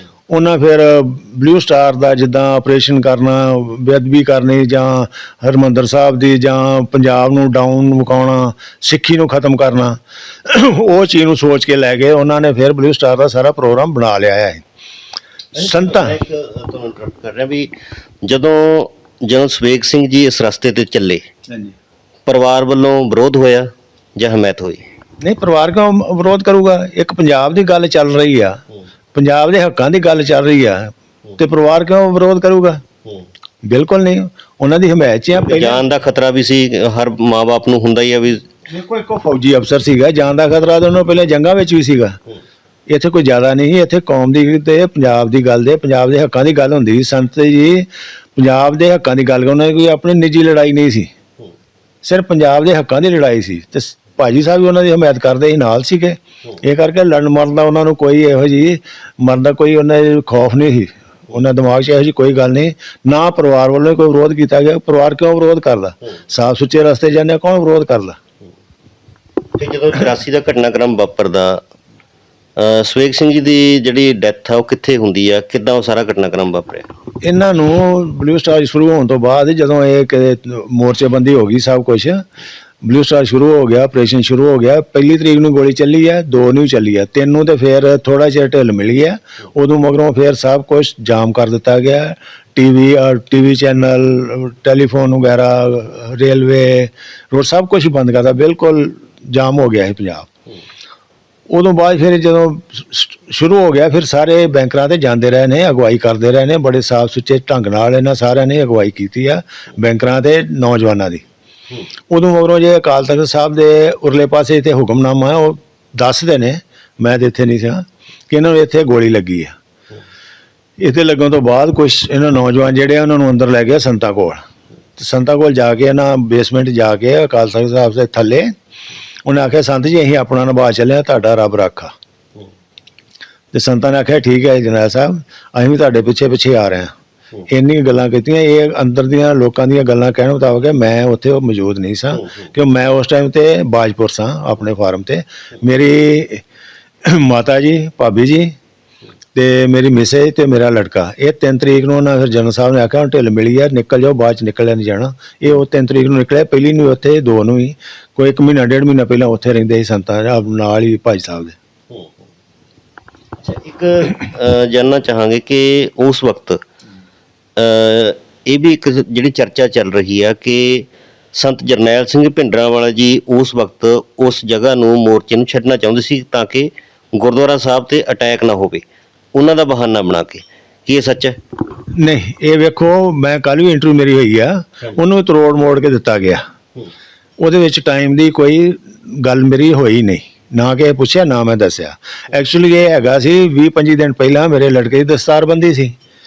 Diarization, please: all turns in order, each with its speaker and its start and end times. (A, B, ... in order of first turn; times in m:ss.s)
0:00.3-0:14.6 A
0:15.5-0:17.7 B
0:15.6-0:16.2 A
0:18.2-0:21.2 B
0:21.5-0:21.7 A
0:22.3-0:24.8 B
0:25.2-0:28.6 A
0:29.2-0:32.8 A
0:33.7-0:35.8 A
0:35.4-0:38.5 B
0:38.7-0:42.2 A
0:42.9-0:51.1 A
0:52.0-1:08.2 A
1:09.6-1:11.6 B
1:12.6-1:16.9 B
1:17.2-1:22.2 A
1:22.8-1:40.3 A
1:41.5-1:51.2 A
1:52.1-1:59.6 A
2:00.8-2:04.4 A
2:05.0-2:08.5 A
2:09.3-2:11.9 A
2:13.5-2:16.9 A
2:17.5-2:26.4 A
2:27.0-2:28.5 A
2:29.4-2:41.6 A
2:43.4-2:46.6 B
2:47.6-3:01.4 B
3:02.0-3:06.4 A
3:07.4-3:15.9 A